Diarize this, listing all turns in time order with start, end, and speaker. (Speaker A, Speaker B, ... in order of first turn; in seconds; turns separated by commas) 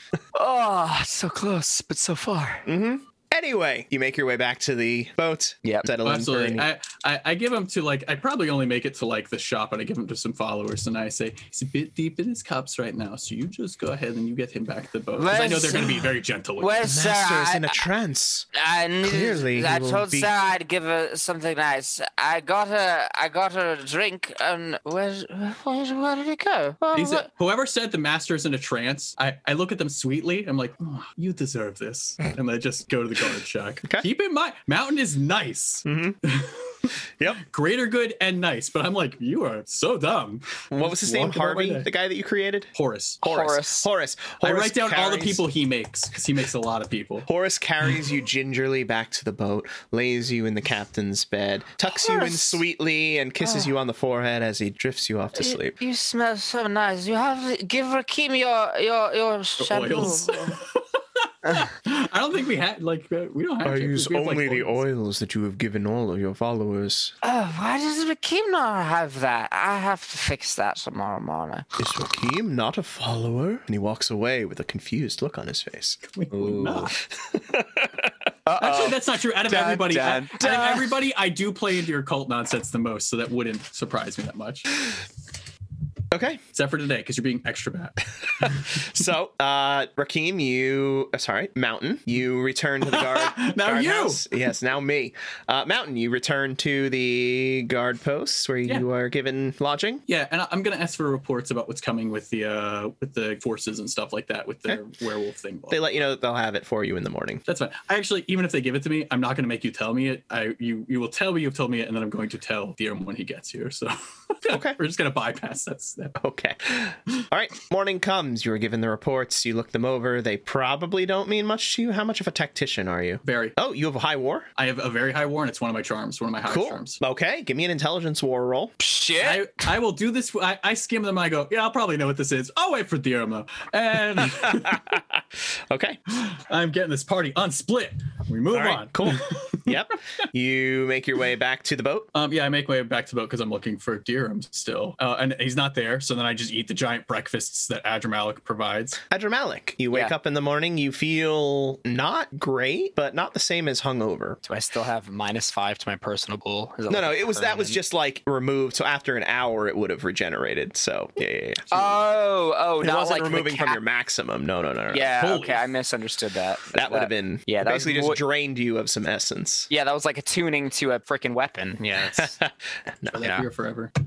Speaker A: 0.3-2.7, Speaker B: 2.7-6.7, Speaker C: 6.0-16.9, Speaker A: 15.2-16.1, Speaker A: 16.6-17.9, Speaker B: 16.8-18.5, Speaker A: 18.5-27.3, Speaker B: 19.0-20.3, Speaker C: 26.9-41.9, Speaker B: 35.9-36.2, Speaker B: 40.7-42.7, Speaker C: 42.7-43.2, Speaker B: 43.2-45.4, Speaker A: 43.2-43.9, Speaker C: 44.4-47.3, Speaker B: 47.3-55.8, Speaker A: 51.9-52.6, Speaker A: 53.4-53.7, Speaker A: 55.4-60.6, Speaker C: 59.6-64.8, Speaker B: 63.6-67.1, Speaker A: 67.2-71.7, Speaker B: 71.8-76.0, Speaker C: 76.0-76.9, Speaker A: 76.3-76.9, Speaker B: 77.2-78.1, Speaker A: 78.5-80.9, Speaker C: 78.6-84.7, Speaker B: 86.1-86.4, Speaker C: 86.5-88.7, Speaker B: 88.7-100.0, Speaker C: 92.8-94.2, Speaker C: 100.1-106.0, Speaker B: 105.7-107.4, Speaker C: 107.5-116.2, Speaker B: 114.5-114.8, Speaker B: 116.2-124.5, Speaker C: 123.2-123.5, Speaker C: 124.6-127.0, Speaker B: 126.4-128.7, Speaker A: 128.8-129.5, Speaker C: 129.2-134.9, Speaker B: 134.3-135.2, Speaker B: 135.7-136.0, Speaker C: 136.1-139.8, Speaker B: 138.5-142.1, Speaker C: 142.2-149.0, Speaker B: 149.1-154.4, Speaker A: 154.4-157.8, Speaker B: 156.9-161.7, Speaker C: 161.7-162.0, Speaker A: 161.7-163.8, Speaker B: 162.8-165.2, Speaker A: 164.9-168.2, Speaker C: 165.2-165.7, Speaker B: 166.7-169.7, Speaker A: 169.7-172.3, Speaker B: 172.1-173.3, Speaker C: 173.1-173.9